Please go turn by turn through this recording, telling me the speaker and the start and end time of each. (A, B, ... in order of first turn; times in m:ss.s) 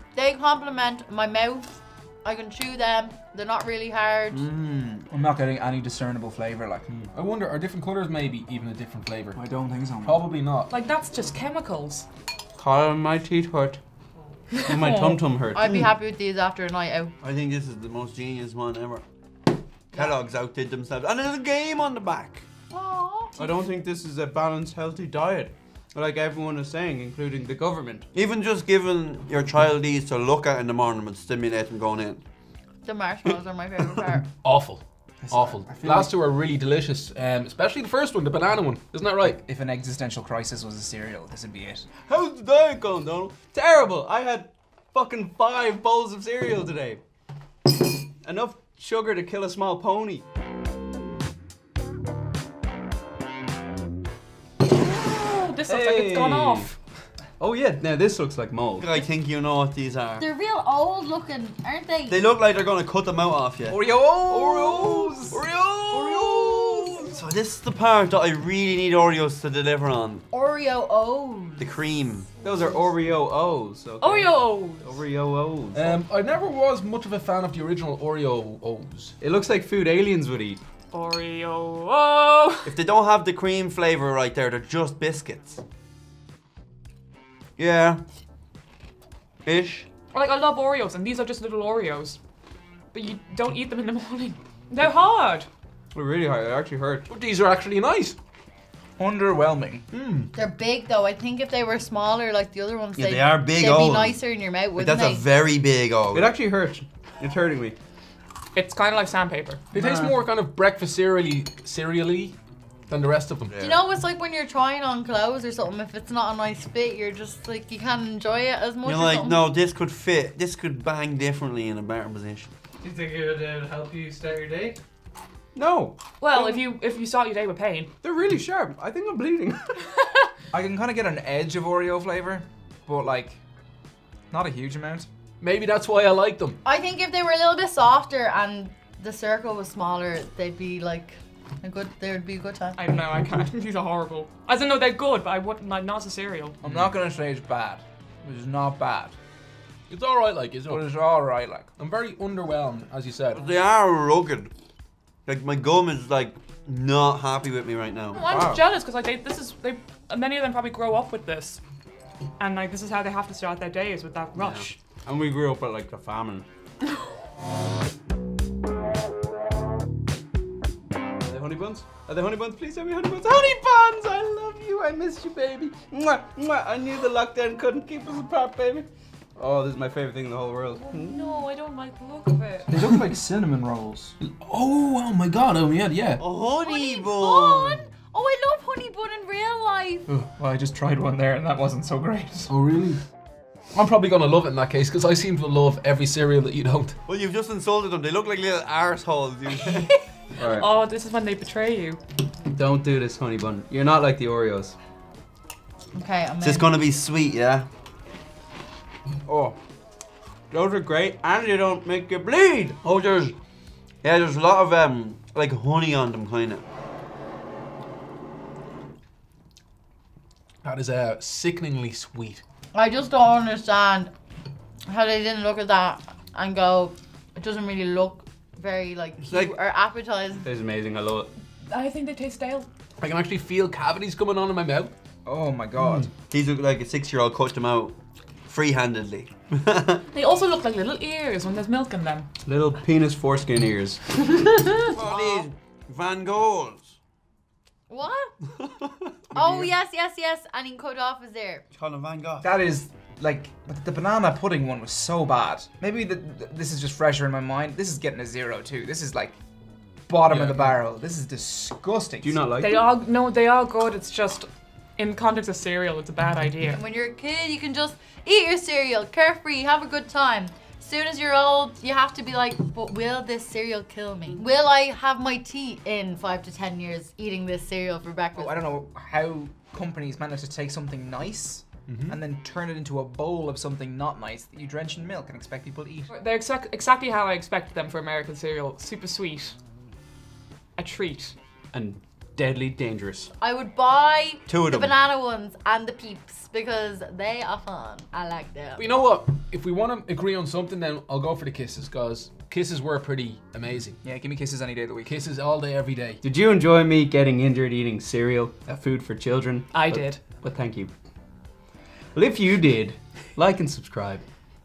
0:00.1-0:04.4 A
0:04.3-0:05.0 B
0:05.1-0:06.9 C
0:07.1-0:09.4 D
0:09.3-0:10.3 C
0:10.0-0:10.7 D
0:10.7-0:12.0 E
0:12.6-0:13.1 B
0:12.8-0:13.8 F
0:14.5-0:15.2 E
0:14.6-0:15.6 F
0:15.5-0:17.1 A
0:17.2-0:19.0 B
0:19.9-0:22.4 B
0:22.7-0:23.4 A
0:23.4-0:28.1 F
0:28.1-0:32.2 B
0:32.8-0:34.3 A
0:34.4-0:39.4 D
0:35.2-0:36.1 C
0:39.4-0:41.8 C
0:42.0-0:47.0 F
0:47.8-0:50.2 F
0:54.8-0:56.8 E
0:55.6-0:56.7 F
0:57.4-0:59.0 F
0:58.8-1:00.2 B
1:00.2-1:02.2 A
1:02.1-1:03.8 B
1:03.7-1:05.4 C
1:03.9-1:04.4 D
1:04.4-1:04.9 B
1:05.1-1:06.3 F
1:05.9-1:07.1 A
1:06.1-1:10.2 B
1:06.4-1:06.8 D
1:10.3-1:11.9 A
1:11.6-1:12.4 B
1:12.4-1:15.9 F
1:14.0-1:15.0 E
1:15.7-1:19.1 D
1:19.2-1:20.6 F
1:20.9-1:22.8 E
1:22.6-1:25.6 B
1:27.6-1:28.0 B
1:29.4-1:29.9 B
1:30.1-1:32.2 E
1:32.9-1:35.5 E
1:35.9-1:37.1 F
1:37.1-1:38.2 D
1:39.0-1:39.8 C
1:39.9-1:40.3 D
1:40.3-1:45.2 A
1:43.0-1:44.2 B
1:44.7-1:46.3 B
1:46.1-1:47.8 F
1:48.5-1:49.6 E
1:49.7-1:52.3 D
1:49.7-1:50.2 C
1:52.9-1:53.5 D
1:53.5-1:53.8 B
1:53.6-1:59.5 A
1:58.8-2:02.5 B
2:02.9-2:04.7 F
2:05.5-2:06.6 F
2:06.2-2:07.9 E
2:08.0-2:09.9 F
2:10.5-2:13.4 C
2:14.3-2:15.1 C
2:15.4-2:16.6 D
2:16.6-2:22.8 A
2:22.8-2:26.6 E
2:26.6-2:29.1 C
2:29.9-2:30.8 D
2:30.7-2:31.7 C
2:31.8-2:33.4 D
2:33.3-2:34.5 B
2:35.2-2:38.4 B
2:38.1-2:41.6 E
2:38.2-2:38.6 F
2:42.4-2:44.7 E
2:44.4-2:46.4 F
2:51.2-3:01.4 F
3:00.8-3:02.7 E
3:02.7-3:04.1 C
3:04.2-3:06.2 D
3:06.2-3:07.8 B
3:06.6-3:10.1 A
3:10.1-3:12.5 C
3:12.5-3:13.0 D
3:13.7-3:17.0 D
3:17.0-3:19.9 B
3:20.4-3:20.7 F
3:20.4-3:22.0 E
3:22.4-3:24.7 F
3:25.9-3:26.7 A
3:26.4-3:27.6 B
3:29.3-3:29.5 F
3:30.5-3:32.8 F
3:32.8-3:33.4 B
3:34.0-3:36.6 B
3:40.6-3:42.4 D
3:42.7-3:44.1 A
3:44.9-3:50.4 A
3:49.2-3:49.5 B
3:50.4-3:51.3 F
3:51.7-3:52.7 E
3:53.0-3:54.9 D
3:55.2-3:56.1 C
3:56.3-3:58.0 B
3:58.5-4:00.0 B
4:00.1-4:02.3 E
4:02.4-4:04.1 F
4:04.9-4:07.0 B
4:07.9-4:08.3 A
4:09.3-4:11.6 A
4:09.4-4:09.7 F
4:11.7-4:12.5 B
4:12.4-4:19.4 C
4:20.1-4:22.4 C
4:22.2-4:22.9 F
4:22.6-4:26.8 E
4:26.7-4:38.6 A
4:38.4-4:46.1 C
4:41.9-4:42.2 D
4:46.1-4:49.6 E
4:50.8-4:51.3 E
4:51.7-4:53.3 F
4:53.4-4:58.8 A
4:54.5-4:54.9 B
4:58.8-5:04.0 D
5:04.0-5:05.2 C
5:05.0-5:06.2 D
5:06.2-5:10.9 F
5:09.7-5:10.2 E
5:12.1-5:14.2 F